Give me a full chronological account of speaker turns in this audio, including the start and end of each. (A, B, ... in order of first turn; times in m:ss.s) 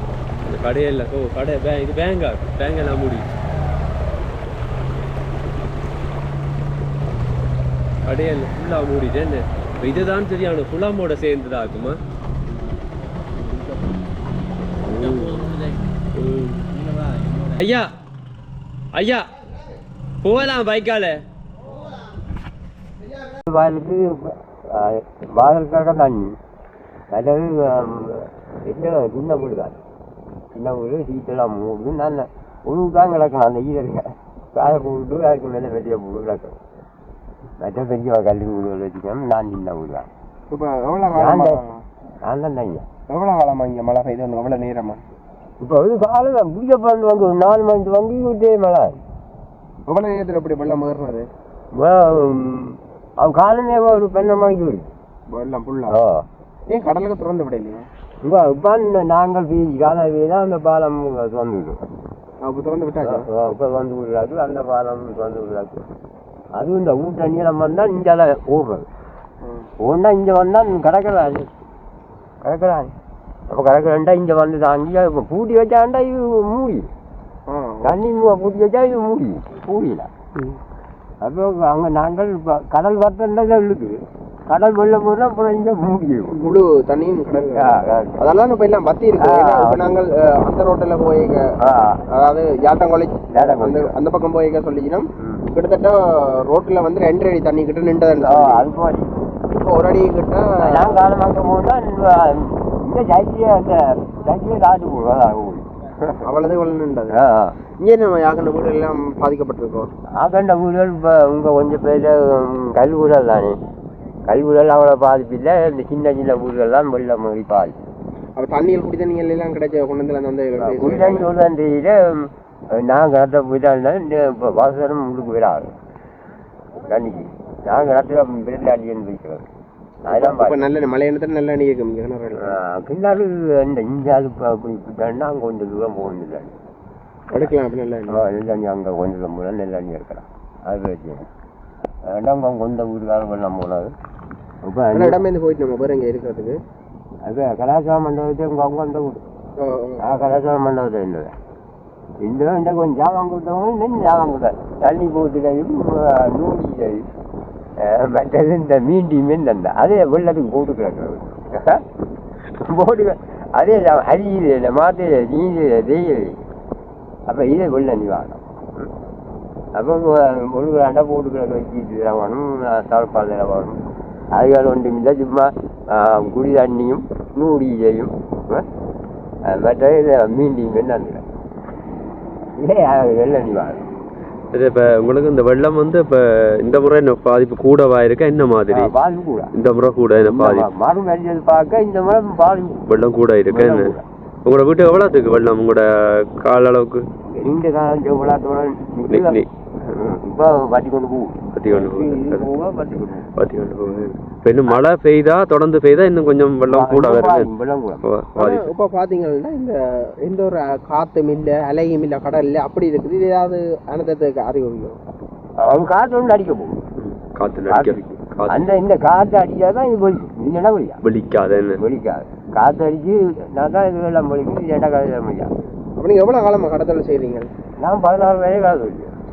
0:00.4-0:03.3 A
0:08.0-0:12.0 A
0:14.9-0:15.5 A
0:16.1-0:16.6 A
0:17.4-0:17.9 A
0:18.9-0:19.3 A
0:20.2-0:21.2 A
0:23.5-0:26.3 B
0:27.1-0:29.8 B
0:30.5-0:36.6 B
0:37.6-0:40.1 B
0:40.5-0:41.8 C
0:41.1-0:41.6 B
0:42.2-0:42.9 B
0:43.1-0:45.0 C
0:45.6-0:49.0 B
0:49.9-0:51.3 C
0:51.7-0:54.9 B
0:55.3-0:56.0 C
0:55.9-0:56.2 B
0:56.7-0:57.8 C
0:58.2-1:01.8 B
1:02.4-1:03.3 C
1:03.0-1:05.8 B
1:06.6-1:08.9 B
1:09.4-1:09.7 C
1:09.8-1:11.5 B
1:12.4-1:12.9 B
1:13.5-1:16.9 B
1:17.5-1:18.0 C
1:17.8-1:20.1 B
1:21.2-1:24.0 B
1:24.5-1:26.4 B
1:26.3-1:31.5 C
1:27.5-1:28.2 B
1:29.2-1:29.9 B
1:31.6-1:32.0 B
1:32.1-1:38.7 C
1:33.3-1:34.0 B
1:38.1-1:39.1 B
1:39.5-1:41.1 C
1:40.6-1:46.4 B
1:46.2-1:47.2 C
1:47.1-1:47.6 B
1:47.8-1:49.9 C
1:50.2-1:53.6 B
1:54.3-1:57.8 B
1:58.4-2:01.3 C
2:00.6-2:05.7 B
2:06.8-2:09.5 B
2:10.0-2:10.7 B
2:10.1-2:12.6 C
2:12.4-2:16.5 B
2:17.3-2:18.3 C
2:18.1-2:21.3 B
2:22.1-2:23.9 B
2:24.6-2:25.2 B
2:24.9-2:26.6 C
2:27.2-2:29.2 B
2:29.6-2:30.0 C
2:30.0-2:31.3 B
2:32.2-2:37.0 B
2:37.8-2:41.8 B
2:42.6-2:46.4 B
2:47.3-2:48.9 B
2:49.7-2:53.8 B
2:54.3-2:58.6 B
2:59.5-3:01.2 B
3:02.6-3:03.8 B
3:04.5-3:08.9 A
3:08.7-3:09.5 B
3:09.5-3:10.7 A
3:10.3-3:12.8 B
3:12.9-3:17.0 A
3:13.5-3:14.0 B
3:17.4-3:23.3 B
3:19.1-3:19.5 A
3:21.5-3:22.5 A
3:23.4-3:27.5 A
3:26.7-3:28.0 B
3:28.0-3:28.7 A
3:28.3-3:35.0 C
3:35.6-3:36.8 B
3:37.0-3:38.6 A
3:37.7-3:41.0 B
3:41.0-3:41.8 A
3:41.8-3:45.5 B
3:46.0-3:47.5 C
3:47.8-3:49.1 B